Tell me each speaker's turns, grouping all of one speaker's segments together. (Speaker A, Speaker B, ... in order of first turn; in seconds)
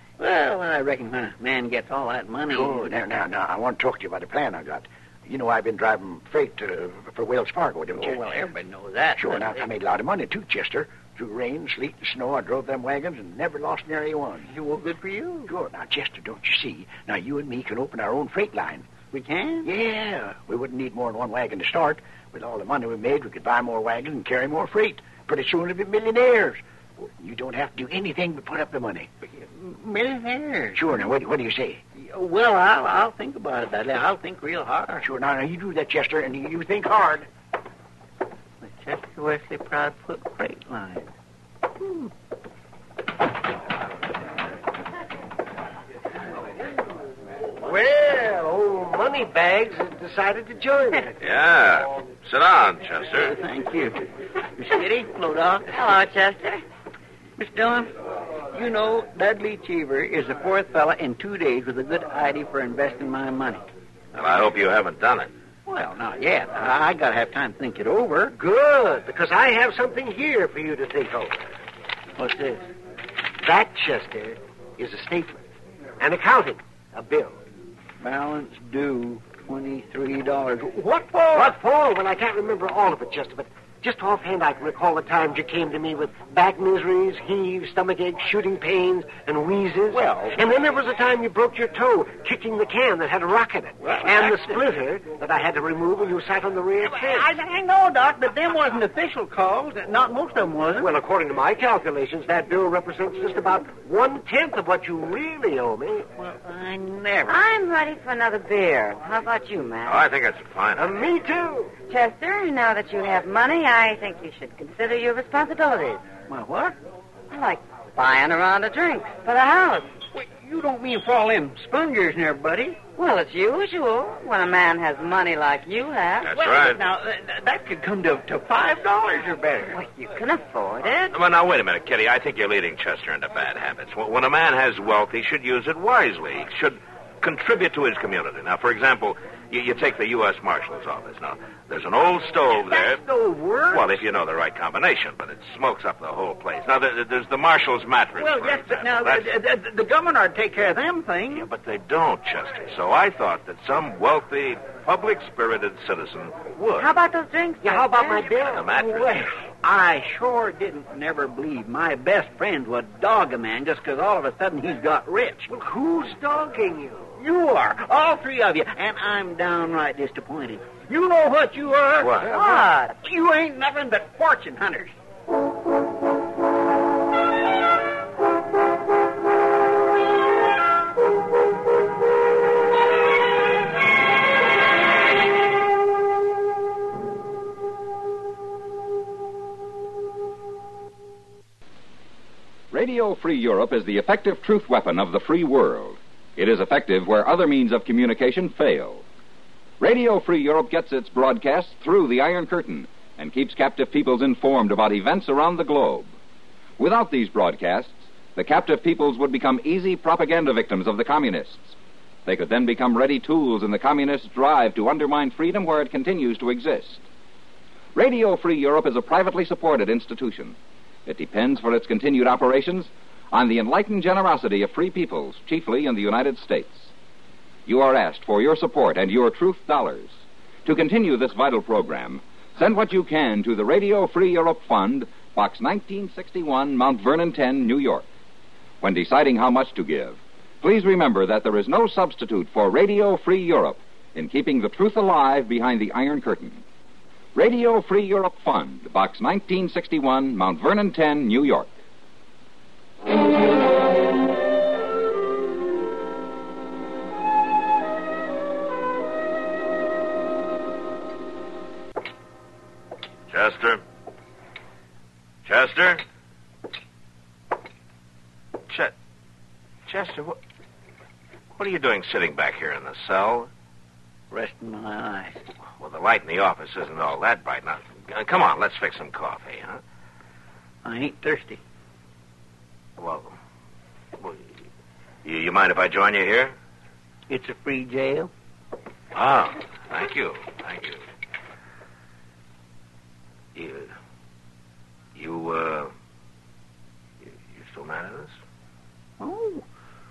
Speaker A: 0.2-2.9, 7.9-9.7, 14.5-15.5, 19.1-19.7, 29.4-30.8, 31.9-35.1, 38.6-41.1, 41.8-42.1, 53.1-54.0, 54.6-55.7, 57.4-57.9, 58.5-63.6, 65.7-68.3, 72.2-72.6, 78.0-81.5, 93.8-94.6, 96.8-100.9, 106.2-107.4, 116.3-116.7, 120.1-122.8, 126.3-129.8, 142.5-143.9, 148.2-151.5, 158.8-165.5, 167.2-174.9, 274.3-275.4, 280.8-281.6, 287.3-288.3, 299.2-299.6
Speaker B: 2.5-8.2, 9.2-14.5, 15.5-18.9, 19.6-29.1, 30.7-31.8, 35.0-37.3
Speaker C: 47.6-51.1, 68.3-71.5, 73.4-75.4, 76.0-77.4, 81.3-97.3, 100.8-106.1, 110.8-111.7, 157.6-159.0, 165.5-167.1
Speaker D: 51.2-53.4, 64.1-65.3, 109.8-111.1, 126.2-126.8, 131.1-143.0, 143.7-149.2, 151.3-156.9, 158.4-159.3, 172.0-172.3, 263.3-263.8, 265.4-266.0, 268.7-268.9, 269.9-270.4, 271.6-273.5, 275.8-279.8, 283.0-283.3, 285.2-286.5, 289.1-291.0, 293.5-293.9, 295.1-295.9, 297.2-298.3
Speaker E: 55.7-56.6, 107.3-110.1, 111.9-116.0, 117.3-119.9, 123.0-126.4, 129.7-131.1, 156.8-158.3, 172.2-172.9
Speaker F: 192.7-199.0, 199.8-206.1, 206.8-217.0, 217.9-226.9, 227.7-238.1, 238.8-246.6, 247.3-251.7